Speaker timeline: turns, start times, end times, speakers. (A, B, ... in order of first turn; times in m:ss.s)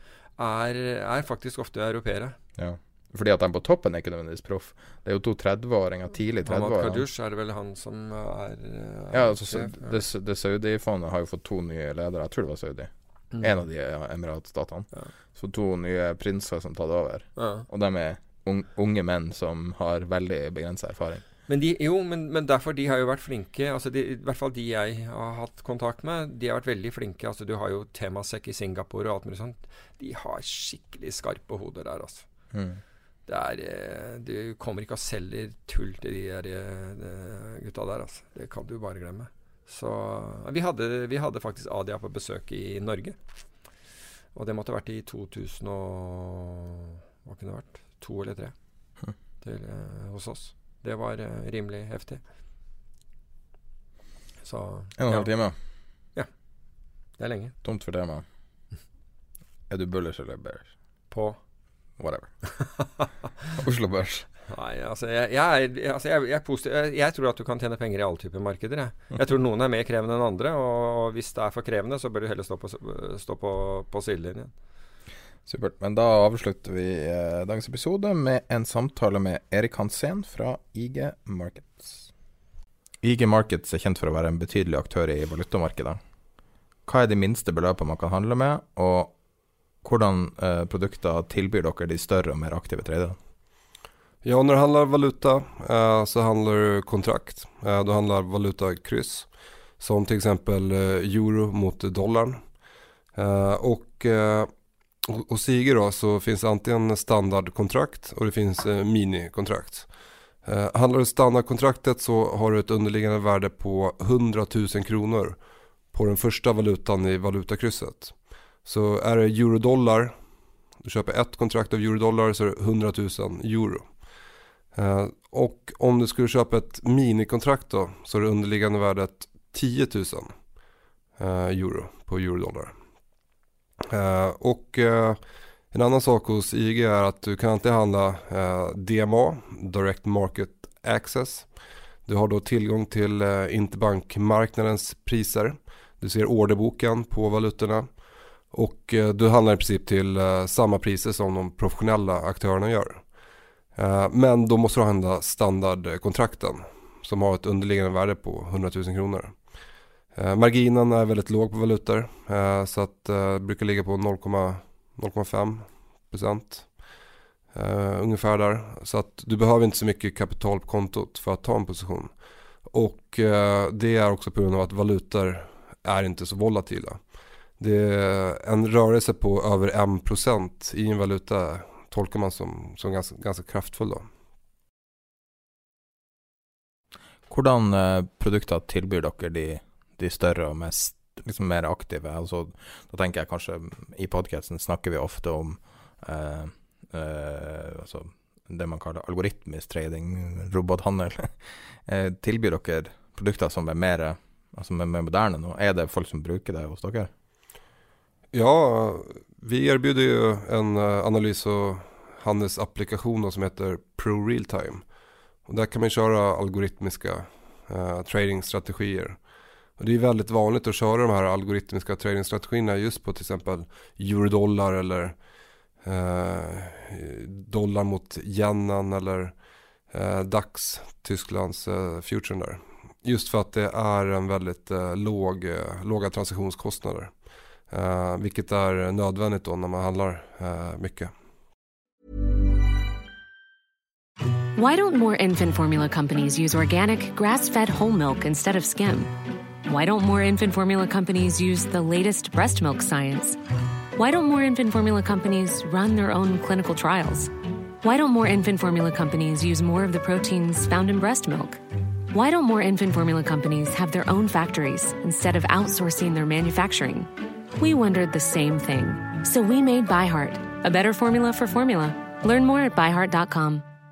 0:00.4-0:02.4 A
0:02.6-0:07.0 B
0:06.4-0:10.0 A
0:09.1-0:21.2 B
0:17.4-0:17.7 A
0:21.5-0:32.2 A
0:32.5-0:32.8 B
0:33.3-0:43.2 A
0:44.3-0:48.5 A
0:49.4-0:52.2 A
0:54.4-0:55.3 A
0:55.0-0:55.6 B
0:57.2-0:57.5 A
0:57.6-0:58.2 B
0:59.7-1:00.7 B
1:01.1-1:01.4 A
1:02.0-1:02.3 B
1:02.8-1:03.1 A
1:03.5-1:04.3 B
1:04.5-1:14.5 A
1:15.4-1:22.1 B
1:23.0-1:26.0 B
1:26.8-1:29.2 B
1:29.8-1:33.2 B
1:34.2-1:42.6 C
1:43.1-1:44.5 C
1:45.1-1:49.9 C
1:50.4-2:04.0 C
2:04.7-2:10.4 C
2:11.2-2:12.8 C
2:13.9-2:15.2 C
2:15.7-2:21.5 C
2:22.0-2:33.1 C
2:33.7-2:39.6 C
2:40.1-2:47.0 C
2:47.5-3:04.1 C
3:07.3-3:27.1 B
3:28.3-3:34.9 C
3:35.4-3:39.2 C
3:39.8-3:45.2 C
3:45.8-3:49.4 C
3:49.9-4:01.1 C
4:04.5-4:09.1 D
4:09.6-4:13.4 D
4:13.9-4:21.6 D
4:22.1-4:33.6 D